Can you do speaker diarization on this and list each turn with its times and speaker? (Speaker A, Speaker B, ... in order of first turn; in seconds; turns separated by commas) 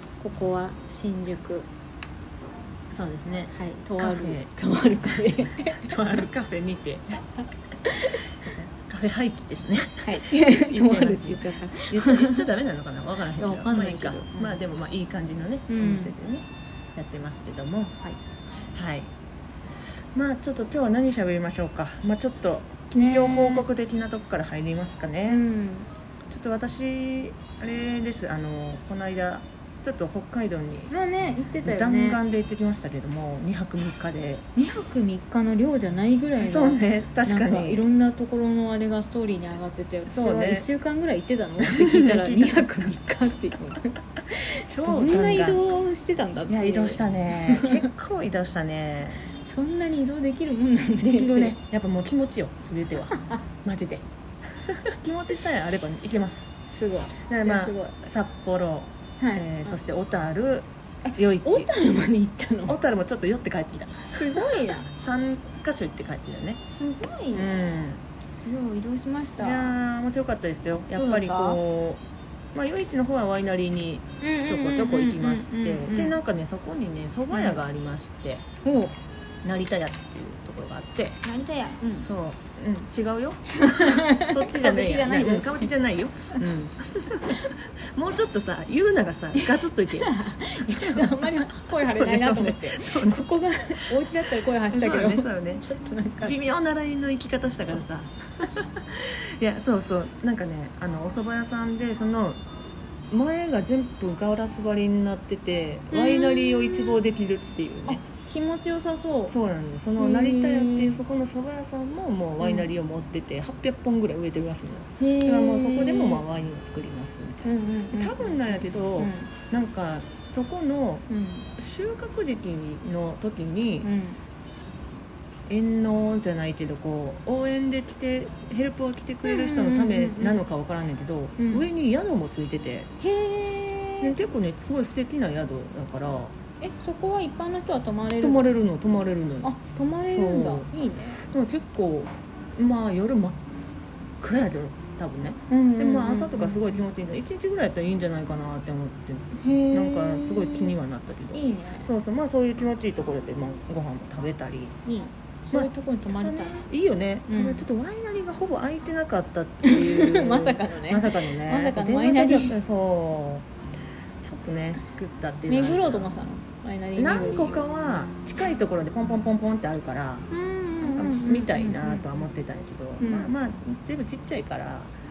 Speaker A: 0.2-1.7, Speaker B: 2.9-4.5, Speaker A: 3.5-6.0, Speaker B: 5.1-7.2, Speaker A: 7.8-8.2, Speaker B: 8.3-17.9, Speaker A: 10.0-12.5, Speaker A: 13.3-14.6, Speaker A: 15.7-16.1, Speaker B: 18.7-19.1, Speaker B: 20.1-25.4, Speaker A: 22.9-23.7, Speaker A: 25.3-25.9, Speaker B: 26.3-30.9, Speaker A: 30.9-32.2, Speaker B: 31.6-34.5, Speaker A: 34.5-47.9, Speaker B: 36.4-37.8, Speaker B: 40.1-40.6, Speaker B: 41.6-42.7, Speaker B: 44.6-45.6, Speaker B: 46.5-49.2, Speaker A: 49.3-51.5, Speaker B: 51.0-56.5, Speaker A: 53.1-53.4, Speaker A: 56.7-58.0, Speaker B: 57.3-61.7, Speaker A: 59.2-59.7, Speaker A: 61.0-62.8, Speaker B: 62.7-66.6, Speaker A: 64.1-64.9, Speaker A: 66.7-67.5, Speaker B: 67.3-68.0, Speaker A: 68.4-69.8, Speaker B: 69.4-72.0, Speaker A: 71.0-71.6, Speaker B: 72.5-78.4, Speaker A: 74.2-76.2, Speaker A: 77.3-77.6, Speaker A: 78.6-78.9, Speaker B: 79.4-81.2, Speaker A: 81.2-82.1, Speaker B: 82.0-93.3, Speaker A: 83.5-85.7, Speaker A: 90.0-96.3, Speaker B: 93.8-95.7, Speaker B: 96.2-102.4, Speaker B: 103.1-108.0, Speaker A: 105.9-107.0, Speaker A: 107.9-109.3, Speaker B: 109.3-121.0, Speaker A: 110.0-111.0, Speaker A: 112.4-112.7, Speaker A: 115.0-116.2, Speaker A: 117.4-119.3, Speaker A: 121.1-121.5, Speaker B: 121.6-123.9, Speaker A: 123.8-124.2, Speaker B: 125.5-132.9, Speaker A: 129.2-130.4, Speaker A: 131.4-131.7, Speaker A: 133.0-134.1, Speaker B: 134.0-136.3, Speaker A: 136.6-138.5, Speaker B: 138.2-139.5, Speaker A: 139.4-141.2, Speaker B: 140.1-143.4, Speaker B: 144.2-154.8, Speaker A: 145.5-146.8, Speaker A: 149.3-150.8, Speaker A: 151.3-151.9, Speaker A: 154.8-156.6, Speaker B: 155.5-163.5, Speaker A: 157.3-157.6, Speaker A: 159.6-162.6, Speaker B: 164.2-166.2, Speaker A: 165.5-167.7, Speaker B: 166.9-170.2, Speaker A: 170.3-172.2, Speaker B: 170.8-174.9, Speaker A: 173.0-173.3